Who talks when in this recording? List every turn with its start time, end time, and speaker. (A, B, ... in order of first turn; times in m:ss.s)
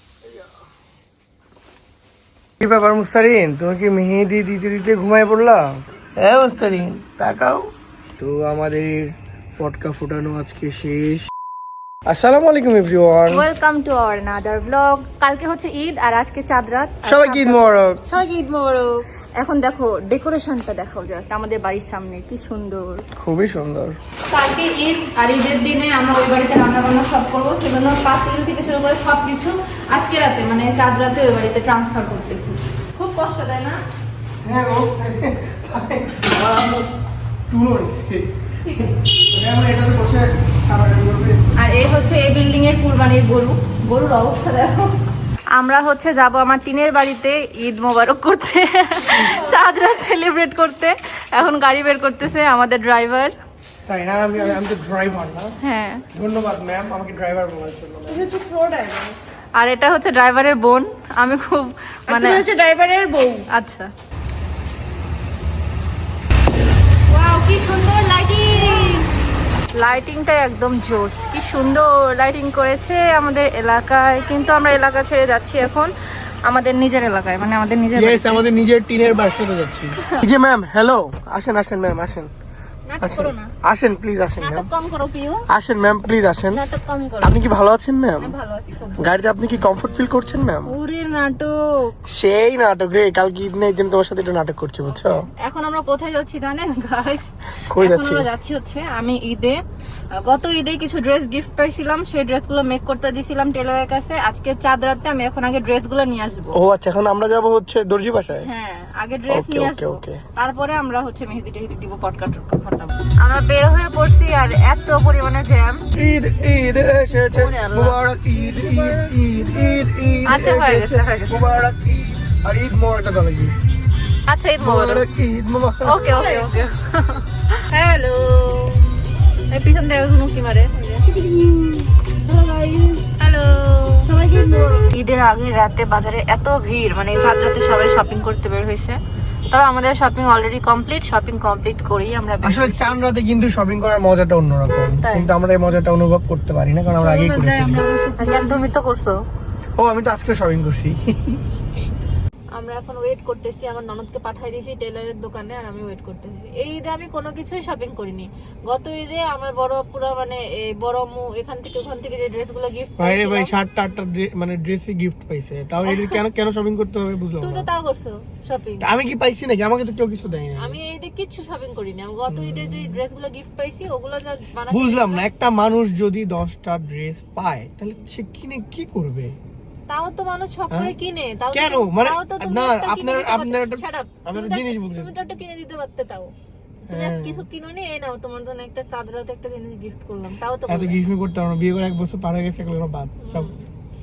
0:02.6-0:07.6 A
0:08.2-0:11.3 A
0:12.1-0:13.5 A
0:13.3-0:18.0 B
0:17.0-0:18.0 A
0:18.1-0:19.1 C
0:19.4-0:23.0 B
0:23.2-0:24.0 A
0:24.3-0:33.8 B
0:34.4-0:36.9 A
0:37.5-0:38.2 A
0:38.6-0:39.0 B
0:38.8-0:41.4 A
0:41.6-0:44.9 B
0:45.6-0:53.3 B
0:49.1-0:49.6 C
0:53.8-0:55.5 A
0:55.6-0:56.0 B
0:56.1-0:58.3 A
0:58.1-0:59.2 C
0:59.6-1:02.4 B
1:02.1-1:03.5 C
1:03.5-1:03.9 B
1:07.1-1:09.1 B
1:09.8-1:15.9 B
1:16.5-1:18.4 B
1:18.0-1:22.3 A
1:22.9-1:23.5 B
1:23.0-1:24.7 A
1:24.4-1:25.4 B
1:25.5-1:26.6 A
1:26.5-1:27.6 B
1:27.2-1:28.3 A
1:28.2-1:29.1 B
1:29.0-1:30.7 A
1:30.7-1:31.6 B
1:32.1-1:35.2 A
1:34.9-1:39.6 B
1:37.7-1:38.3 A
1:40.1-1:46.6 B
1:46.5-1:48.5 A
1:48.4-1:55.8 B
1:49.3-1:50.2 A
1:56.0-2:03.6 A
1:57.2-1:58.0 B
1:58.4-1:59.7 C
2:00.3-2:01.5 B
2:04.3-2:05.0 B
2:04.6-2:06.0 A
2:05.8-2:08.9 B
2:06.0-2:06.7 C
2:09.5-2:11.2 B
2:11.1-2:13.1 C
2:13.2-2:14.1 B
2:14.0-2:14.9 C
2:14.9-2:19.0 B
2:19.5-2:23.0 B
2:22.4-2:27.9 A
2:25.0-2:25.3 B
2:27.0-2:28.6 C
2:28.2-2:29.2 B
2:29.8-2:31.4 A
2:32.6-2:43.5 B
2:43.0-2:47.7 A
2:45.8-2:46.2 B
2:47.4-2:48.9 B
2:48.8-2:50.8 A
2:50.6-2:55.3 B
2:52.3-2:53.0 A
2:54.7-2:59.4 A
2:59.9-3:06.3 B
3:00.7-3:01.0 A
3:01.5-3:05.1 A
3:06.9-3:07.5 A
3:06.9-3:11.0 B
3:10.7-3:13.5 A
3:13.2-3:13.6 B